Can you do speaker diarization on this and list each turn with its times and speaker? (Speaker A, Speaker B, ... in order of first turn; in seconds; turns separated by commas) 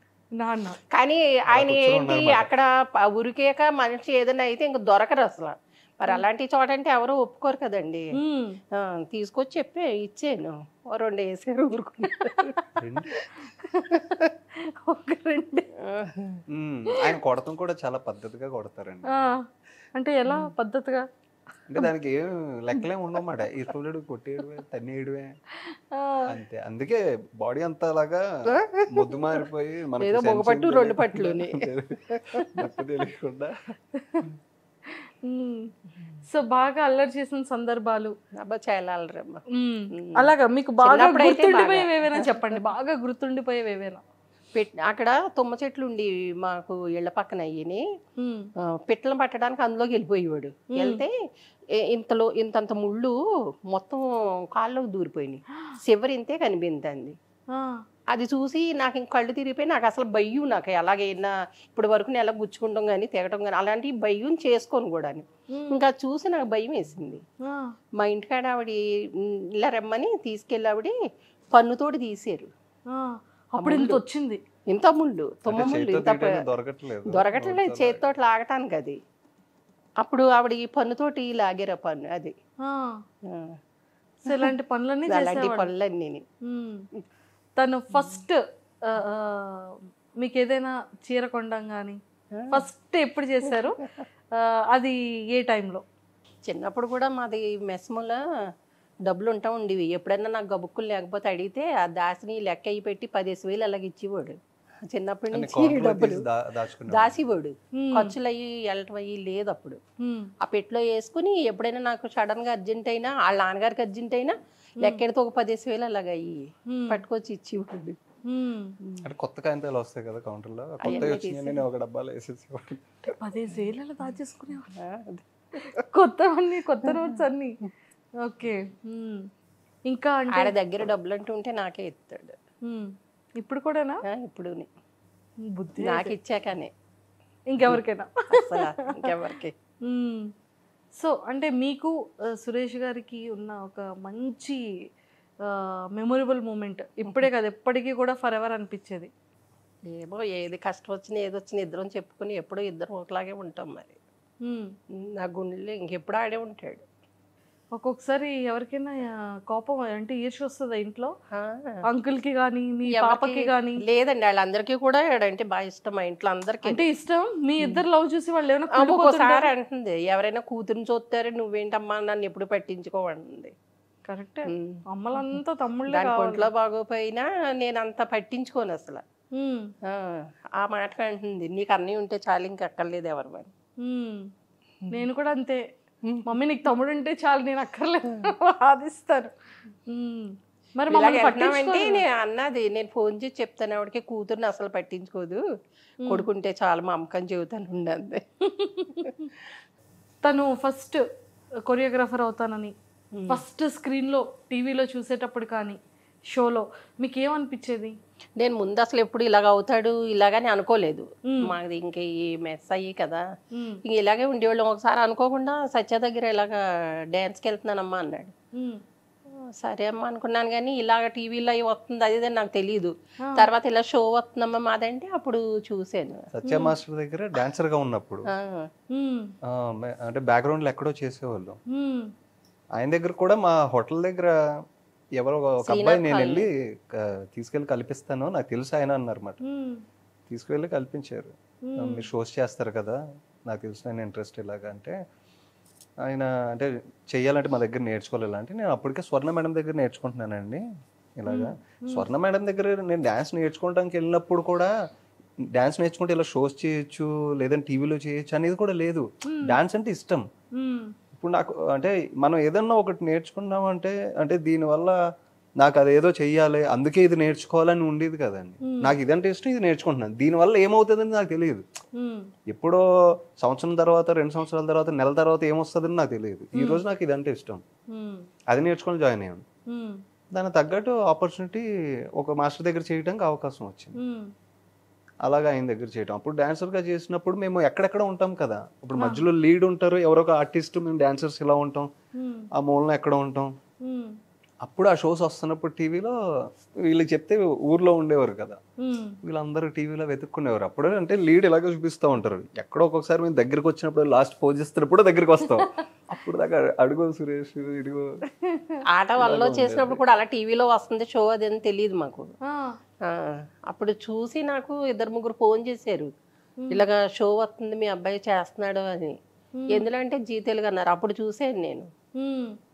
Speaker A: 0.3-0.8, Speaker B: 0.9-8.2, Speaker C: 1.5-2.5, Speaker A: 8.1-8.6, Speaker B: 8.7-12.6, Speaker A: 12.2-12.6, Speaker C: 12.8-13.2, Speaker A: 13.4-15.7, Speaker B: 13.9-14.3, Speaker B: 15.8-16.4, Speaker C: 16.5-19.3, Speaker A: 19.1-21.1, Speaker C: 21.7-25.3, Speaker A: 25.6-26.2, Speaker C: 26.3-33.7, Speaker B: 28.5-29.2, Speaker B: 30.0-32.2, Speaker A: 34.0-34.3, Speaker A: 34.9-35.7, Speaker A: 36.2-38.1, Speaker B: 38.4-42.6, Speaker A: 39.5-44.0, Speaker B: 44.5-47.9, Speaker A: 48.2-48.5, Speaker B: 48.6-51.1, Speaker A: 50.7-51.0, Speaker B: 51.7-53.2, Speaker B: 53.7-57.2, Speaker A: 57.5-57.8, Speaker B: 58.1-67.2, Speaker A: 65.5-65.8, Speaker A: 67.4-67.8, Speaker B: 68.0-71.0, Speaker B: 71.5-72.5, Speaker A: 72.9-74.4, Speaker B: 73.6-74.0, Speaker B: 74.7-76.4, Speaker C: 75.5-78.1, Speaker B: 77.1-79.0, Speaker B: 80.0-82.3, Speaker A: 82.6-83.0, Speaker B: 83.2-83.6, Speaker A: 84.2-85.7, Speaker B: 84.2-84.5, Speaker B: 85.1-86.2, Speaker A: 86.4-86.8, Speaker A: 87.6-93.8, Speaker B: 92.3-92.7, Speaker A: 94.3-95.8, Speaker B: 96.5-98.2, Speaker B: 99.0-106.2, Speaker C: 105.3-107.2, Speaker B: 106.9-109.8, Speaker A: 107.8-108.1, Speaker A: 110.0-110.3, Speaker B: 110.4-118.0, Speaker A: 116.7-117.0, Speaker A: 118.3-118.8, Speaker C: 119.0-123.1, Speaker B: 120.8-121.6, Speaker A: 123.1-124.7, Speaker B: 124.8-125.6, Speaker A: 125.6-127.6, Speaker B: 126.8-127.2, Speaker A: 128.2-129.3, Speaker A: 129.9-130.5, Speaker B: 130.3-132.4, Speaker A: 132.6-134.0, Speaker B: 134.0-134.7, Speaker A: 135.5-136.1, Speaker B: 135.8-136.7, Speaker A: 137.5-139.1, Speaker B: 137.7-139.5, Speaker A: 139.8-140.3, Speaker A: 140.9-144.6, Speaker A: 145.4-149.1, Speaker B: 149.9-154.0, Speaker A: 154.4-154.7, Speaker B: 155.0-156.8, Speaker A: 157.7-161.1, Speaker B: 161.3-161.8, Speaker A: 161.9-163.8, Speaker B: 162.9-166.8, Speaker A: 166.6-169.5, Speaker B: 168.7-173.5, Speaker A: 174.1-176.5, Speaker B: 174.5-175.4, Speaker B: 175.9-179.0, Speaker A: 179.3-179.7, Speaker B: 179.8-183.5, Speaker A: 183.8-184.3, Speaker A: 184.9-185.7, Speaker A: 186.2-189.3, Speaker A: 189.9-192.0, Speaker B: 190.9-195.4, Speaker B: 196.0-198.2, Speaker A: 198.4-199.3, Speaker A: 200.2-201.0, Speaker A: 201.7-202.7, Speaker B: 203.1-203.4, Speaker A: 203.3-205.8, Speaker A: 206.3-208.0, Speaker B: 208.4-213.2, Speaker A: 211.3-211.5, Speaker A: 213.5-213.8, Speaker B: 213.8-216.6, Speaker B: 217.1-218.3, Speaker A: 218.5-218.8, Speaker B: 219.3-226.3, Speaker A: 223.2-223.5, Speaker C: 226.3-228.3, Speaker A: 226.5-226.7, Speaker B: 228.3-228.7, Speaker A: 228.9-229.3, Speaker C: 229.4-231.6, Speaker A: 231.7-232.1, Speaker C: 232.8-234.4, Speaker C: 235.2-239.4, Speaker B: 235.6-236.5, Speaker A: 239.4-239.8, Speaker C: 240.3-245.0, Speaker A: 241.7-242.1, Speaker C: 246.0-250.6, Speaker C: 251.2-254.7, Speaker A: 251.3-252.1, Speaker C: 255.5-260.3, Speaker A: 259.2-259.5, Speaker A: 260.6-260.9, Speaker C: 261.1-264.9, Speaker C: 265.6-271.6, Speaker A: 268.6-268.9, Speaker A: 271.9-272.3, Speaker C: 272.5-272.8, Speaker C: 273.4-277.6, Speaker A: 276.5-276.8, Speaker A: 277.9-278.3, Speaker C: 278.5-279.4, Speaker A: 279.7-280.0, Speaker C: 280.3-281.6, Speaker C: 282.2-284.0, Speaker A: 284.0-284.3, Speaker C: 285.2-291.9, Speaker A: 289.0-289.2, Speaker A: 292.1-292.5, Speaker C: 292.5-293.5, Speaker A: 293.8-294.2, Speaker C: 294.6-296.1, Speaker C: 296.8-298.6, Speaker A: 298.8-299.2, Speaker C: 299.2-308.2, Speaker A: 308.3-308.8, Speaker B: 308.9-312.3, Speaker C: 309.2-310.0, Speaker A: 312.4-312.8, Speaker B: 313.0-316.1, Speaker A: 316.6-316.8, Speaker B: 316.7-319.2, Speaker A: 319.6-319.9, Speaker B: 319.7-321.9, Speaker A: 322.2-322.6